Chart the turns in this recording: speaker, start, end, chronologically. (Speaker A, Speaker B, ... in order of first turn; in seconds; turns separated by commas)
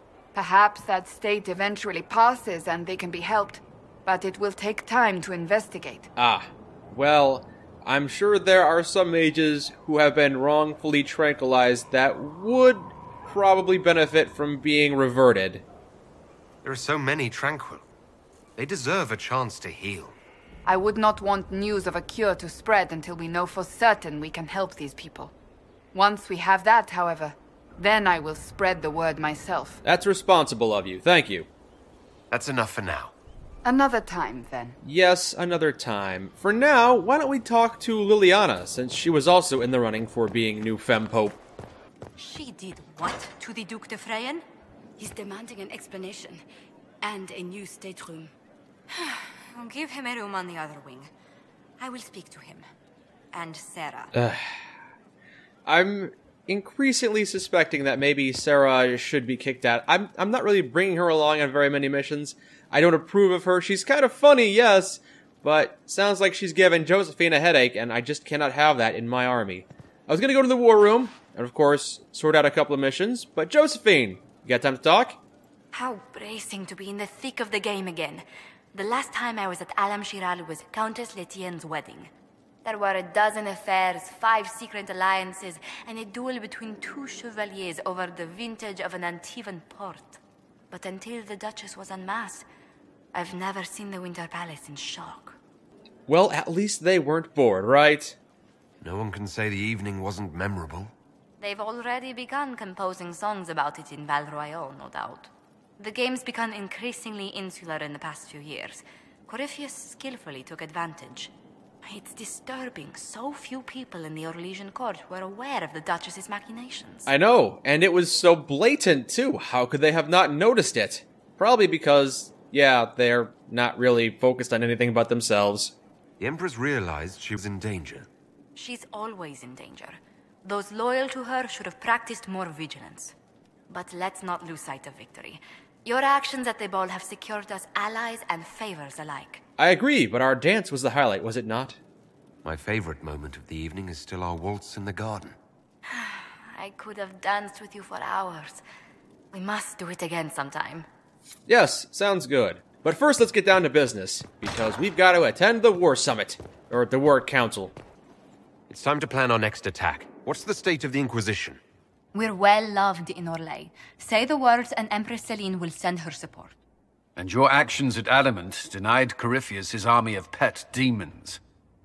Speaker A: 0.3-6.1, Speaker B: 6.2-15.6, Speaker C: 16.6-17.9, Speaker C: 18.6-20.2, Speaker A: 20.7-25.3, Speaker A: 25.9-29.8, Speaker B: 29.9-31.5, Speaker C: 32.3-33.1, Speaker A: 33.6-34.8, Speaker B: 34.8-41.4, Speaker D: 42.2-44.4, Speaker D: 45.0-46.4, Speaker D: 47.0-48.3, Speaker D: 48.9-51.1, Speaker D: 51.8-52.7, Speaker D: 53.3-54.1, Speaker B: 54.1-54.5, Speaker B: 55.7-75.2, Speaker D: 75.7-82.1, Speaker D: 82.6-90.2, Speaker D: 90.7-92.5, Speaker D: 93.1-95.4, Speaker B: 96.1-98.2, Speaker C: 98.8-100.9, Speaker D: 101.4-111.3, Speaker D: 111.8-117.1, Speaker B: 117.1-125.7, Speaker C: 126.2-128.1, Speaker D: 128.6-133.2, Speaker D: 133.7-139.4, Speaker B: 139.6-141.8, Speaker C: 142.4-145.4, Speaker D: 145.9-148.6, Speaker D: 149.3-150.9, Speaker B: 151.5-157.7, Speaker C: 158.7-161.6, Speaker D: 162.1-166.6, Speaker E: 167.2-171.4